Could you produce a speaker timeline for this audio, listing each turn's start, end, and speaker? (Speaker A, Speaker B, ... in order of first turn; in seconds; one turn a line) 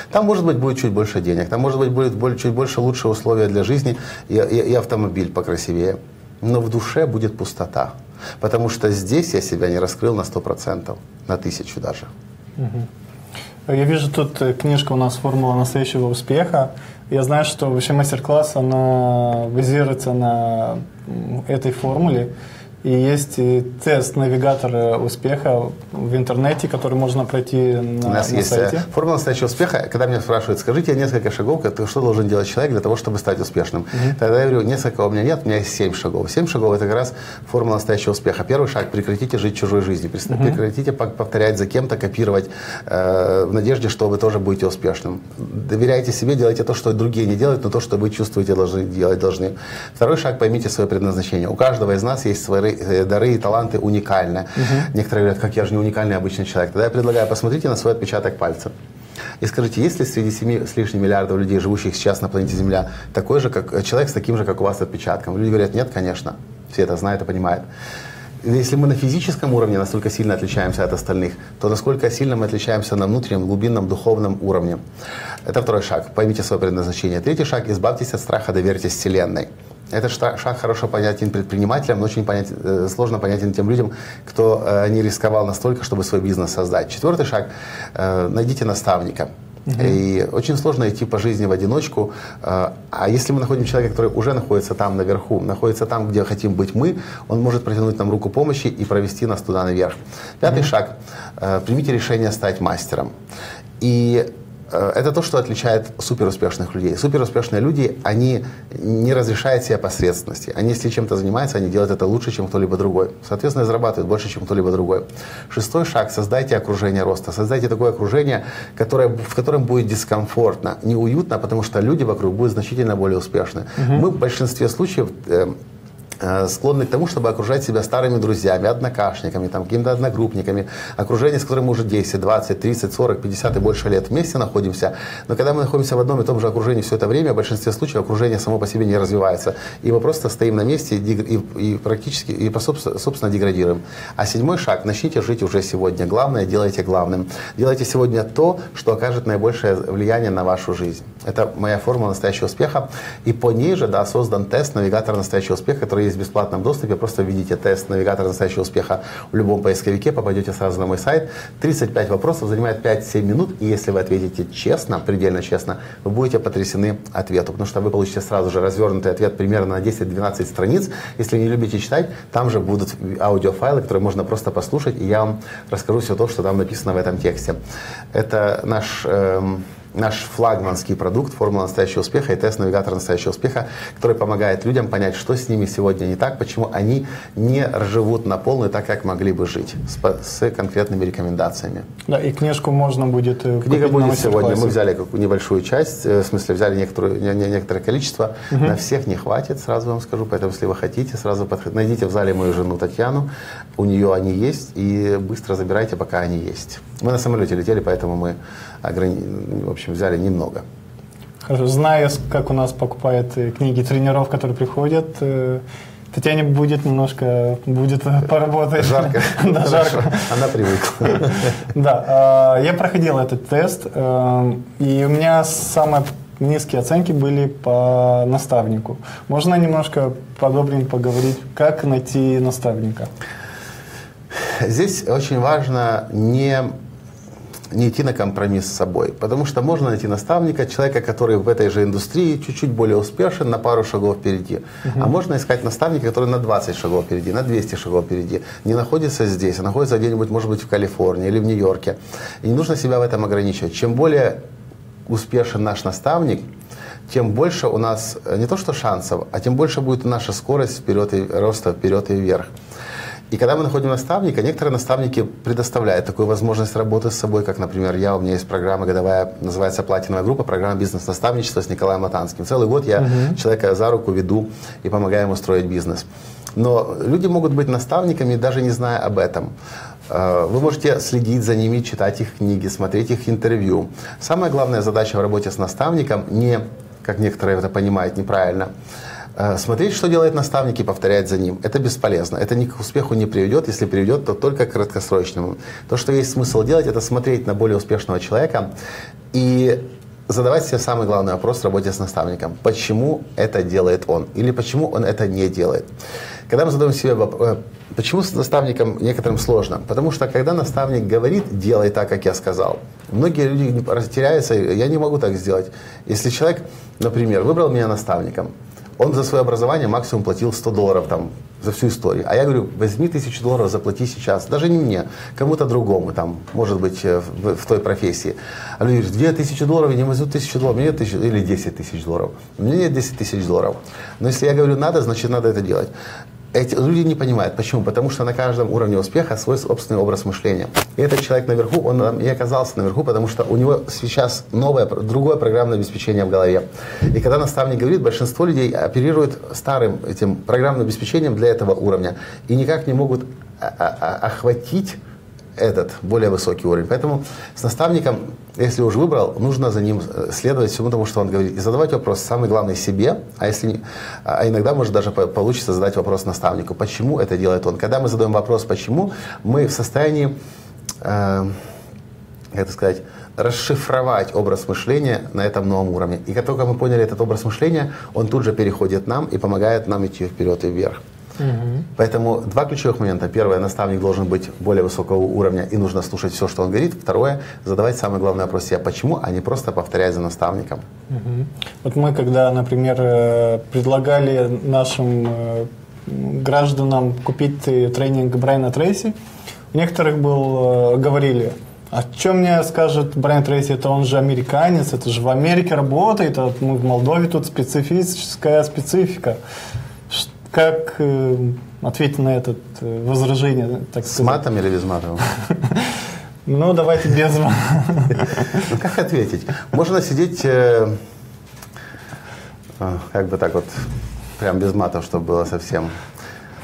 Speaker A: 0.1-12.1
Speaker B: 12.6-12.9
Speaker B: 13.7-22.3
Speaker B: 22.8-28.9
Speaker A: 28.1-58.7
Speaker B: 40.3-40.6
Speaker B: 54.6-54.9
Speaker A: 59.4-67.7
Speaker A: 68.4-74.8
Speaker A: 75.5-103.1
Speaker B: 89.7-90.0
Speaker A: 103.8-125.6
Speaker B: 123.8-124.0
Speaker A: 126.2-177.6
Speaker A: 178.1-191.9
Speaker B: 192.1-194.8
Speaker A: 193.6-210.6
Speaker B: 198.5-198.8
Speaker B: 211.4-220.3
Speaker A: 218.8-221.4
Speaker B: 221.1-233.1
Speaker A: 234.4-236.7
Speaker A: 237.7-254.4
Speaker B: 244.8-245.1
Speaker A: 255.1-256.4
Speaker A: 257.1-262.5
Speaker A: 263.3-279.5
Speaker B: 273.0-273.4
Speaker A: 280.1-288.7
Speaker A: 289.4-298.7
Speaker A: 299.3-305.9
Speaker A: 306.5-335.9
Speaker A: 336.5-355.0
Speaker A: 355.6-370.3
Speaker A: 371.0-371.6
Speaker A: 372.5-381.0
Speaker B: 381.4-381.9
Speaker A: 382.0-390.8
Speaker B: 391.1-399.2
Speaker B: 399.7-409.4
Speaker B: 410.1-414.4
Speaker A: 414.1-415.2
Speaker B: 415.2-418.7
Speaker A: 418.6-421.0
Speaker A: 422.8-425.9